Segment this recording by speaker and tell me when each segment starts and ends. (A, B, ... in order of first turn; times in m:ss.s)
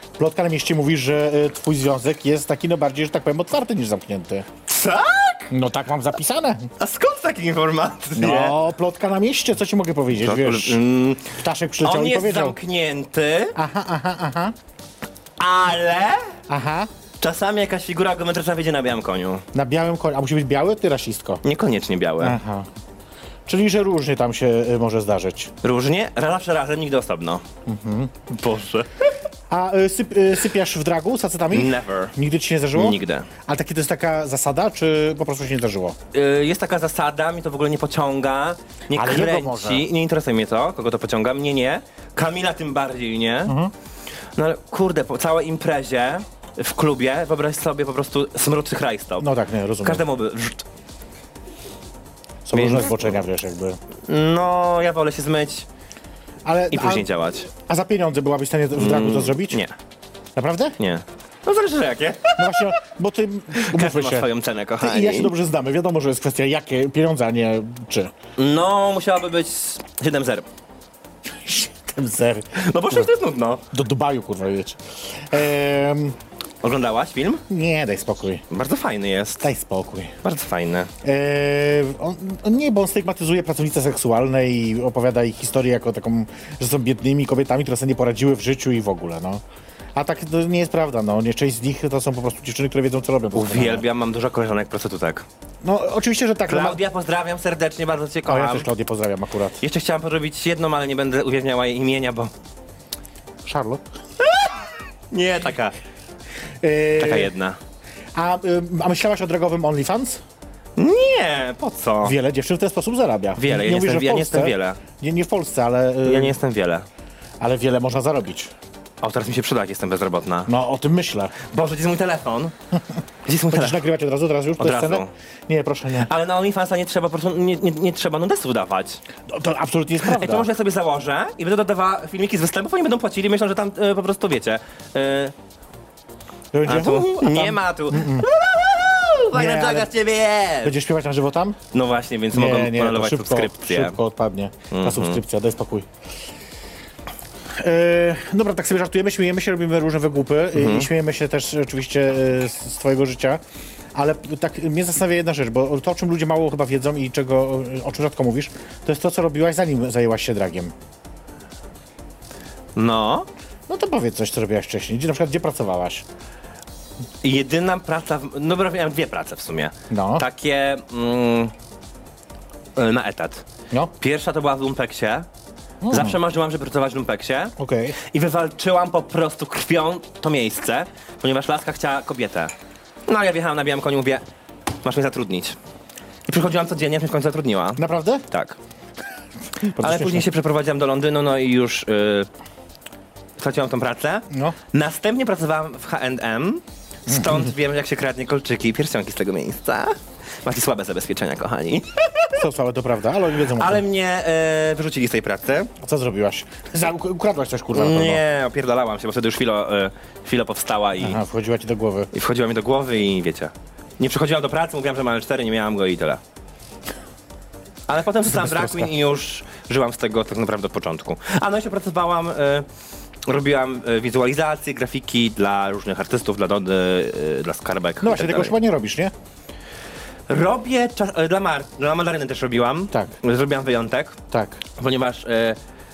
0:00.2-0:04.5 A
0:04.7-0:05.5 B
0:05.5-0:06.7 A
0:06.8-0:08.6 B
0:08.2-0:10.8 A
0:10.1-0:13.6 B
0:11.4-0:12.6 A
0:13.6-0:14.6 A
0:15.4-0:16.3 B
0:16.5-0:16.9 A
0:17.2-0:19.4 B
0:19.5-0:21.4 A
0:21.4-0:22.4 B
0:22.2-0:22.7 A
0:23.5-0:25.5 A
0:25.6-0:27.4 B
0:27.7-0:28.3 A
0:28.3-0:28.9 B
0:29.5-0:36.0 A
0:31.5-0:32.1 B
0:32.8-0:33.3 B
0:36.1-0:43.6 B
0:39.0-0:39.9 A
0:43.5-0:43.7 A
0:44.4-0:49.3 B
0:49.2-0:50.0 A
0:49.8-0:50.6 B
0:52.5-0:53.8 A
0:52.5-0:53.1 B
0:54.1-0:55.7 B
0:56.4-0:59.6 A
0:56.7-0:57.5 B
0:58.8-0:59.7 B
1:00.4-1:00.8 A
1:00.8-1:02.8 B
1:02.4-1:08.1 A
1:03.5-1:05.3 B
1:08.4-1:10.5 B
1:11.3-1:13.1 A
1:12.5-1:13.6 B
1:13.7-1:16.2 A
1:16.6-1:17.4 B
1:17.5-1:18.4 A
1:18.5-1:19.5 B
1:19.4-1:20.2 A
1:20.2-1:20.9 B
1:21.0-1:29.4 A
1:30.0-1:33.8 A
1:33.3-1:35.2 B
1:35.6-1:36.8 A
1:36.5-1:38.7 B
1:38.3-1:39.6 A
1:39.6-1:42.3 B
1:43.4-1:43.8 A
1:44.2-1:44.6 B
1:45.1-1:45.8 B
1:46.6-1:47.3 A
1:47.0-1:47.6 B
1:48.2-1:50.2 A
1:50.8-1:52.2 B
1:52.0-1:56.4 A
1:53.4-1:54.8 B
1:56.0-1:56.9 B
1:57.4-1:58.5 A
1:59.0-2:00.5 B
2:00.5-2:01.4 A
2:01.4-2:02.6 B
2:03.3-2:03.8 B
2:03.5-2:06.1 A
2:04.6-2:05.1 B
2:06.0-2:09.0 B
2:09.3-2:10.5 A
2:10.0-2:15.3 B
2:16.5-2:18.3 A
2:16.7-2:20.8 B
2:19.3-2:19.9 A
2:20.6-2:21.6 A
2:21.7-2:24.0 B
2:22.3-2:25.9 A
2:24.7-2:25.2 B
2:27.5-2:33.4 A
2:30.6-2:30.9 B
2:34.0-2:40.7 A
2:42.8-2:43.3 B
2:43.7-2:46.0 A
2:47.2-2:51.5 B
2:49.9-2:50.3 A
2:52.8-2:53.4 B
2:54.0-2:55.3 B
2:55.8-2:56.2 A
2:55.9-3:02.5 B
2:57.6-2:58.0 A
3:03.1-3:04.2 B
3:04.8-3:05.6 B
3:06.3-3:08.6 B
3:07.8-3:08.2 A
3:09.6-3:10.3 A
3:09.6-3:12.3 B
3:13.4-3:22.4 B
3:14.3-3:14.6 A
3:17.1-3:17.5 A
3:22.4-3:23.8 A
3:23.5-3:25.7 B
3:25.8-3:28.2 A
3:27.7-3:31.2 B
3:31.0-3:32.1 A
3:32.1-3:36.2 B
3:37.9-3:42.7 B
3:38.3-3:38.9 A
3:43.3-3:48.6 B
3:48.0-3:49.1 A
3:50.3-3:54.2 B
3:54.3-3:54.6 A
3:54.8-3:55.6 B